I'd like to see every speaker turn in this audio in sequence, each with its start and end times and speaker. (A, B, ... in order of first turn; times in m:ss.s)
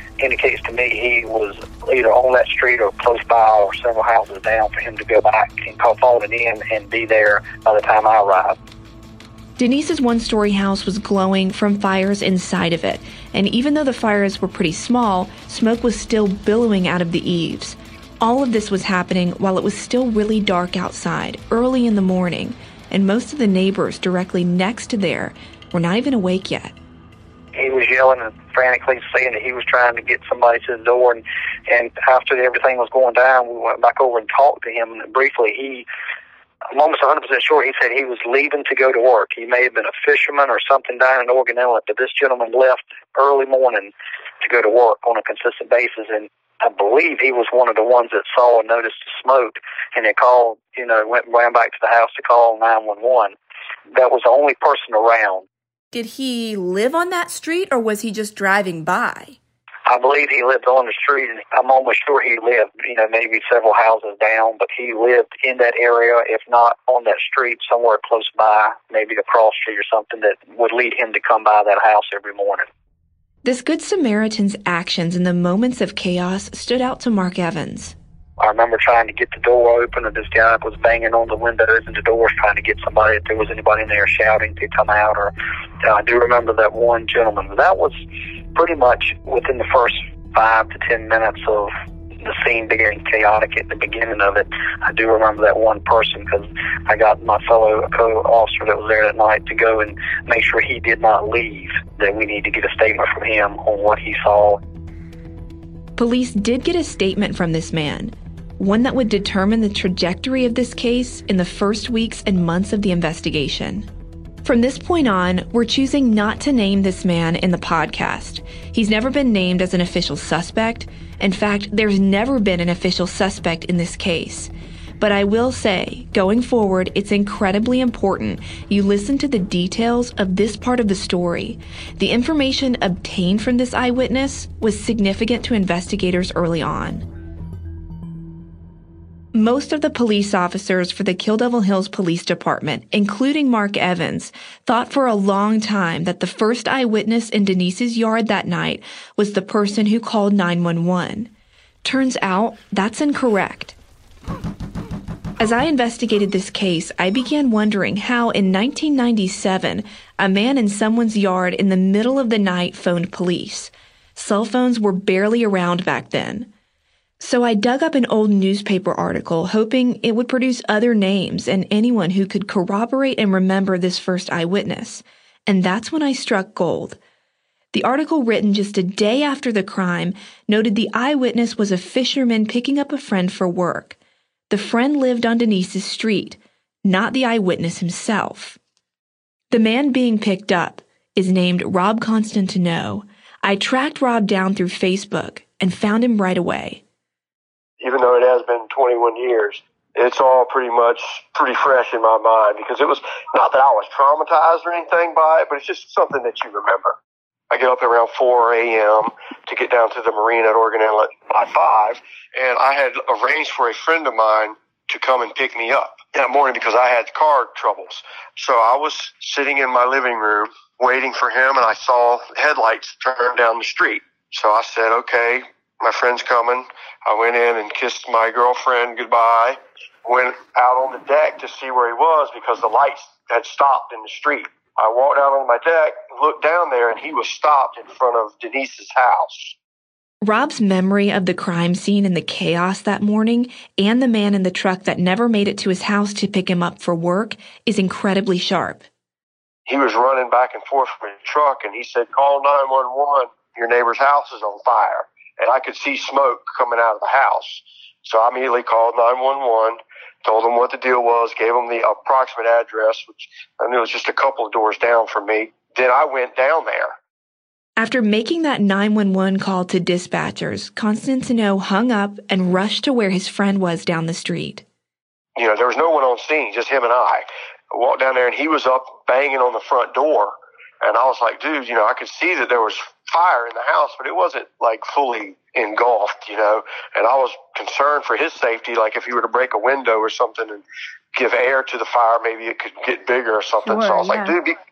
0:00.2-0:08.6 A
0:09.6-0:26.8 B
0:27.6-0:35.9 A
0:36.7-0:53.3 A
0:53.9-0:55.4 A
0:55.9-0:59.4 B
0:59.9-1:12.7 A
1:13.4-1:18.0 B
1:18.4-1:28.0 A
1:28.6-1:44.6 A
1:46.0-1:53.9 B
1:54.4-2:17.0 B
2:19.3-2:31.3 B
2:31.8-2:33.8 B
2:35.4-2:46.5 B
2:47.2-2:57.0 B
2:57.7-3:04.0 B
3:04.5-3:08.6 B
3:09.5-3:16.8 B
3:17.8-3:27.0 C
3:27.5-3:59.6 C
4:00.2-4:08.8 B
4:09.7-4:26.9 C
4:27.8-4:34.6 B
4:35.4-4:54.6 C
4:53.7-4:54.3 B